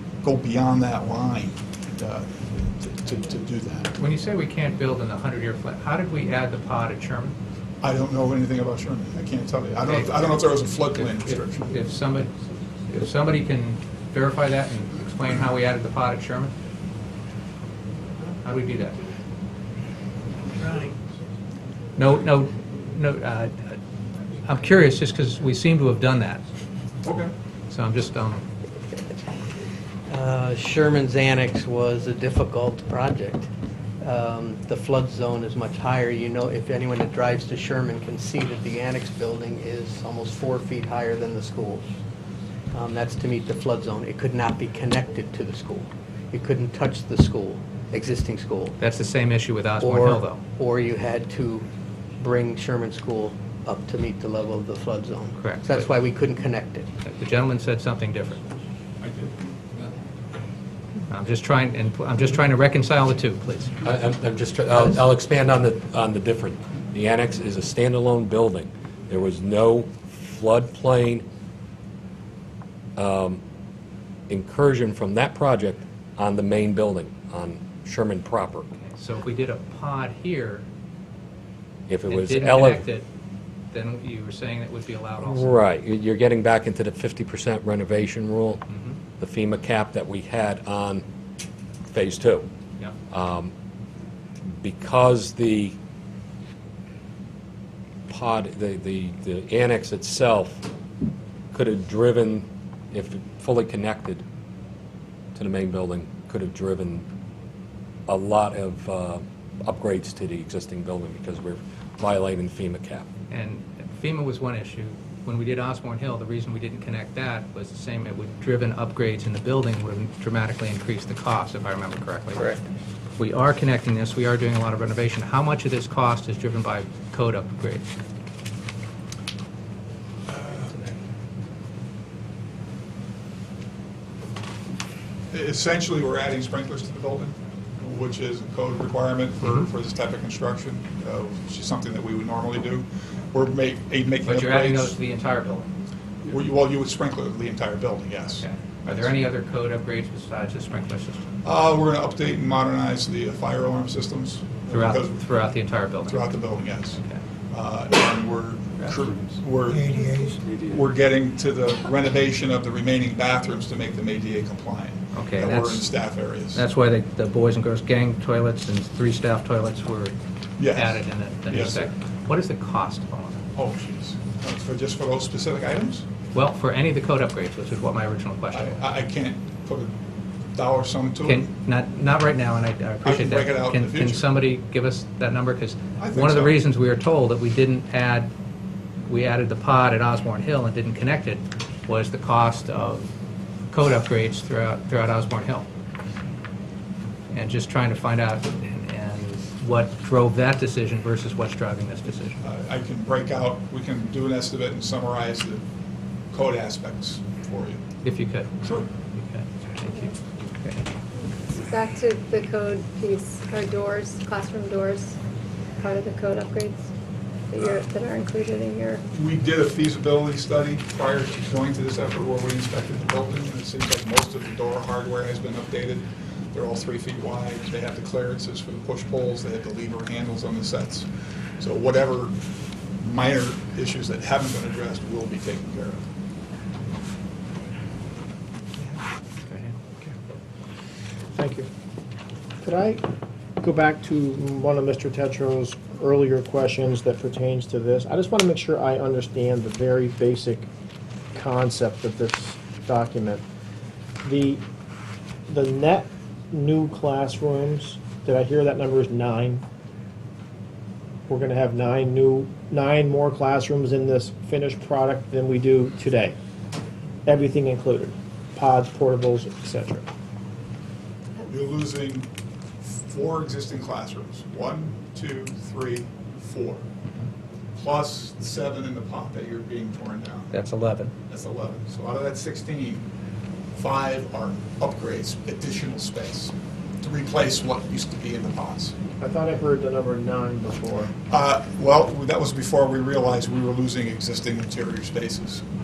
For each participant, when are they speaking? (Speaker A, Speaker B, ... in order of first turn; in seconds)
Speaker A: 0.2-3.9, 7.8-11.7, 27.0-27.3, 59.0-59.3, 130.3-130.7, 135.3-144.9, 146.3-149.2, 151.4-155.2, 156.0-166.6, 170.6-171.9, 173.5-176.1, 178.5-179.9, 180.5-181.4, 183.0-184.2, 186.0-186.6, 202.4-205.6, 206.3-207.8, 219.1-231.1, 231.6-232.3, 233.0-236.0, 271.4-272.3, 272.8-276.8, 277.8-280.5, 281.3-283.1, 283.7-288.9, 291.3-295.6
Speaker B: 4.0-7.3, 9.8-12.3, 12.9-16.5, 18.4-19.0, 22.0-23.8, 24.4-26.4, 27.7-28.4, 48.8-50.4, 55.3-56.0, 57.0-58.4, 61.1-63.7, 79.0-80.6, 82.1-83.0, 83.7-85.6, 88.7-89.0, 113.3-122.6, 123.2-127.8, 144.2-145.7, 148.4-151.2, 154.7-156.3, 165.1-170.1, 170.7-173.4, 176.3-178.8, 181.2-188.3, 189.1-193.1, 193.7-195.7, 197.3-202.4, 208.0-210.8, 280.5-281.1
Speaker C: 20.6-20.9, 30.1-33.5, 34.0-41.9, 42.7-48.8, 49.8-56.9
Speaker D: 63.8-71.2, 73.0-73.4, 74.3-78.7, 81.9-82.9, 85.2-88.6, 89.2-91.0, 91.9-92.5, 93.1-93.5, 94.5-95.8, 98.1-100.7, 101.5-104.2, 105.3-107.0, 108.1-113.1
Speaker E: 211.4-215.2, 215.8-216.9, 217.5-219.0
Speaker F: 241.3-241.7, 242.6-243.0, 243.6-250.7, 251.3-253.4, 254.2-254.6, 255.5-259.6, 261.3-266.3, 267.2-270.1, 289.2-291.1